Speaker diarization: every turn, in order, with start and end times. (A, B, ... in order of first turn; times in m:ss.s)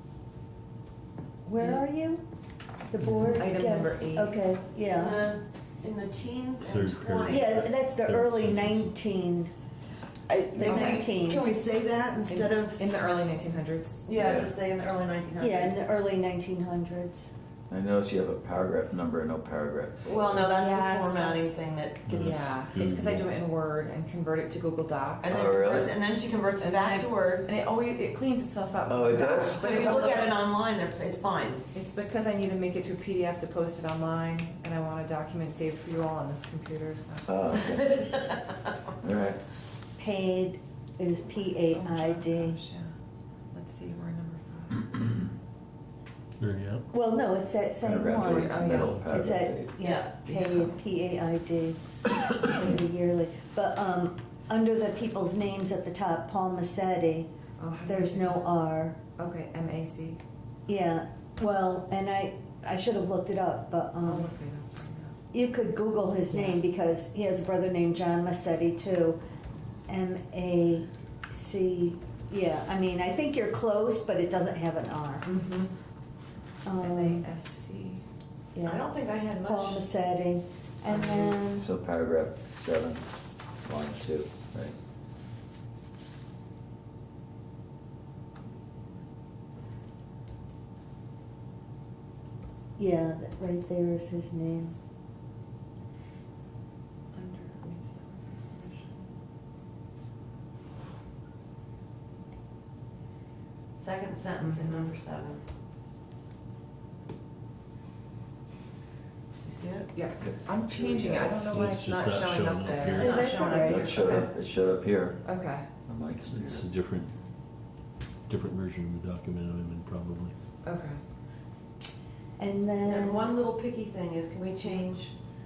0:01.4-0:02.2 A
0:01.6-0:01.8 B
0:02.9-0:05.3 A
0:03.3-0:04.4 B
0:04.9-0:07.7 C
0:06.6-0:08.9 D
0:07.3-0:09.5 A
0:10.3-0:11.4 A
0:10.5-0:13.1 C
0:10.5-0:11.0 B
0:12.3-0:14.1 B
0:14.1-0:15.8 C
0:14.1-0:14.6 E
0:15.4-0:17.3 A
0:17.7-0:20.4 E
0:20.0-0:22.5 C
0:20.5-0:21.6 A
0:22.1-0:23.3 D
0:22.1-0:25.9 B
0:25.2-0:27.5 C
0:25.3-0:25.9 E
0:26.6-0:30.3 B
0:28.9-0:29.8 E
0:29.6-0:31.6 C
0:31.7-0:37.6 B
0:37.3-0:38.0 E
0:37.6-0:38.5 C
0:39.0-0:39.4 E
0:40.0-0:42.6 A
0:41.7-0:42.9 B
0:43.5-0:45.0 B
0:46.4-0:46.8 D
0:46.9-0:51.8 A
0:47.8-0:49.7 E
0:48.1-0:49.0 B
0:49.8-0:50.2 C
0:50.1-0:50.8 B
0:52.4-0:57.3 A
0:57.6-0:58.6 B
0:57.8-0:59.0 A
0:59.2-1:00.2 B
1:00.7-1:04.3 A
1:04.0-1:05.2 B
1:05.3-1:09.2 A
1:06.3-1:06.6 B
1:09.9-1:15.3 A
1:15.4-1:15.7 C
1:16.6-1:17.3 A
1:16.8-1:18.0 B
1:18.6-1:18.9 A
1:18.6-1:19.8 C
1:19.4-1:21.7 A
1:20.9-1:21.4 B
1:21.5-1:23.1 E
1:23.6-1:24.8 E
1:32.8-1:34.8 A
1:37.1-1:39.1 B
1:43.8-1:45.4 C
1:44.4-1:45.0 B
1:49.4-1:49.9 C
1:49.9-1:54.2 B
1:50.2-1:51.5 E
1:51.5-1:53.5 D
1:52.8-1:54.3 C
1:53.0-1:54.0 A
1:53.5-1:55.3 E
1:55.2-1:55.7 B
1:55.9-1:56.7 E
1:56.2-1:57.1 D
1:58.3-2:00.4 D
2:00.6-2:01.0 B
2:02.4-2:03.2 A
2:02.8-2:05.1 C